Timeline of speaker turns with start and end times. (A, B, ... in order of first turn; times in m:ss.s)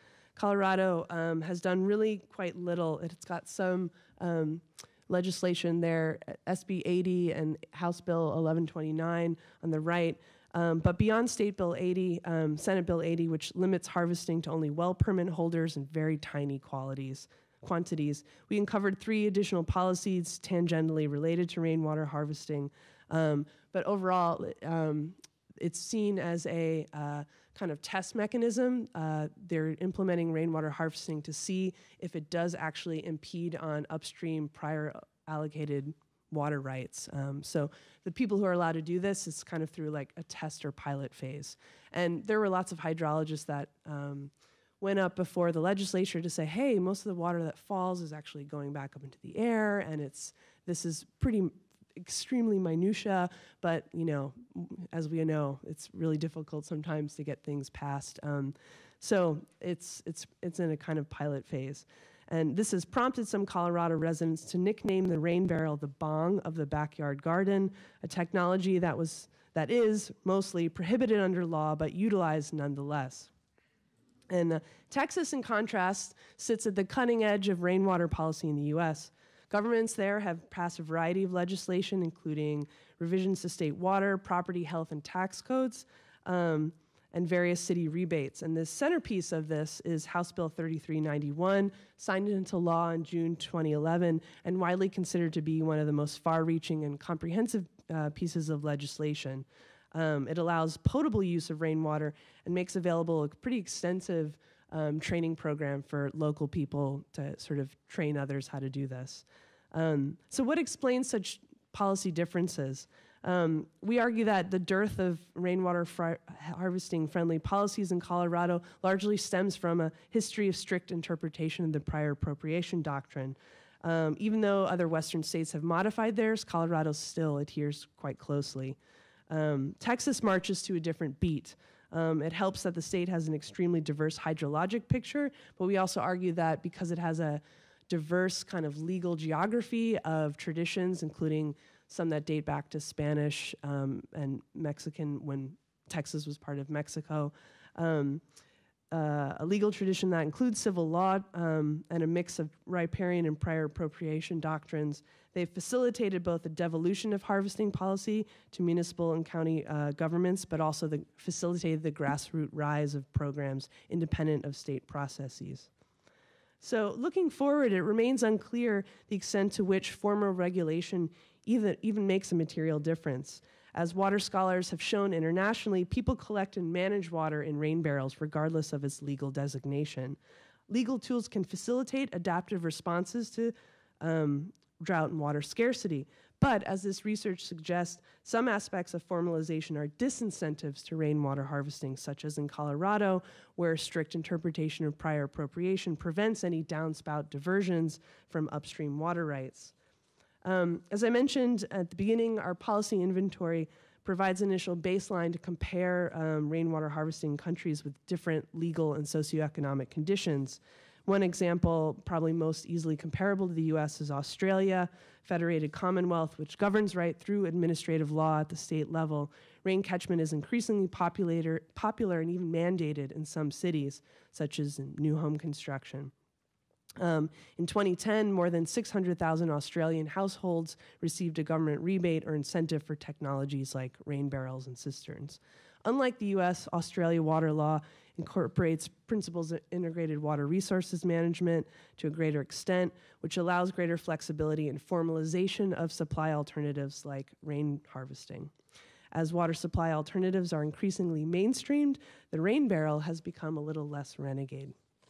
0:00.4-1:13.3 A
1:14.3-2:08.8 A
2:09.3-2:28.2 A
2:28.9-2:45.7 A
2:46.6-3:00.2 A
3:00.7-3:19.7 A
3:20.4-3:46.1 A
3:47.0-4:08.5 A
4:09.1-4:14.7 A